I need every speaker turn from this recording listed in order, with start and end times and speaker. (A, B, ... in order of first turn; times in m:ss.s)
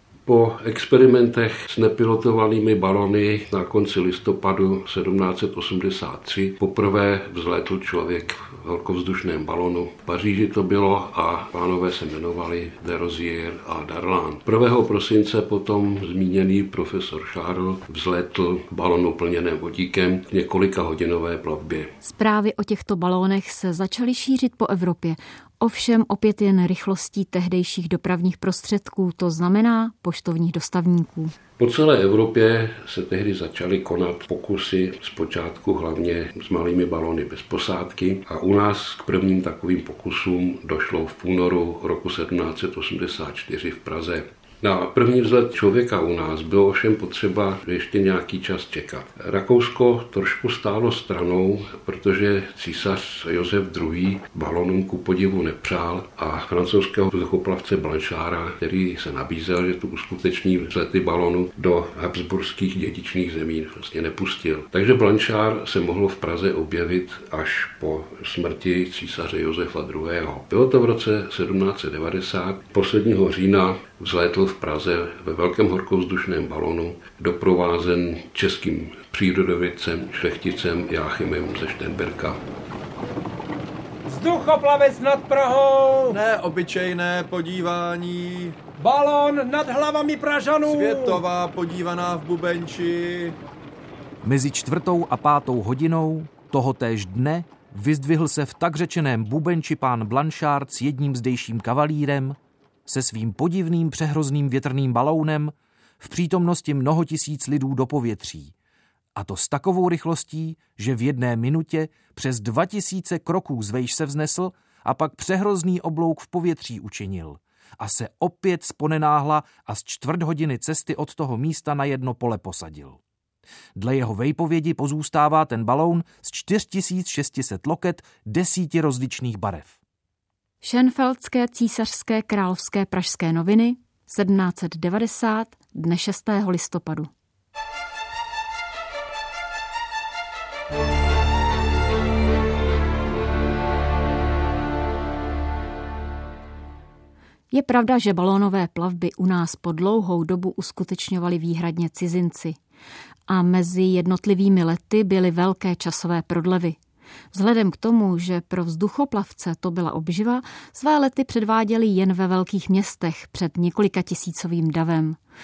0:00.2-0:21.9 A
0:22.0-0:31.3 B
0:31.6-1:22.4 A
1:24.0-1:26.2 C
1:26.1-1:28.6 D
1:28.8-1:31.2 C
1:30.6-1:33.4 D
1:34.2-1:48.5 E
1:49.1-2:03.0 E
2:03.8-2:09.8 E
2:10.6-2:17.1 B
2:27.5-2:32.6 B
2:33.3-2:36.8 B
2:37.3-2:45.2 B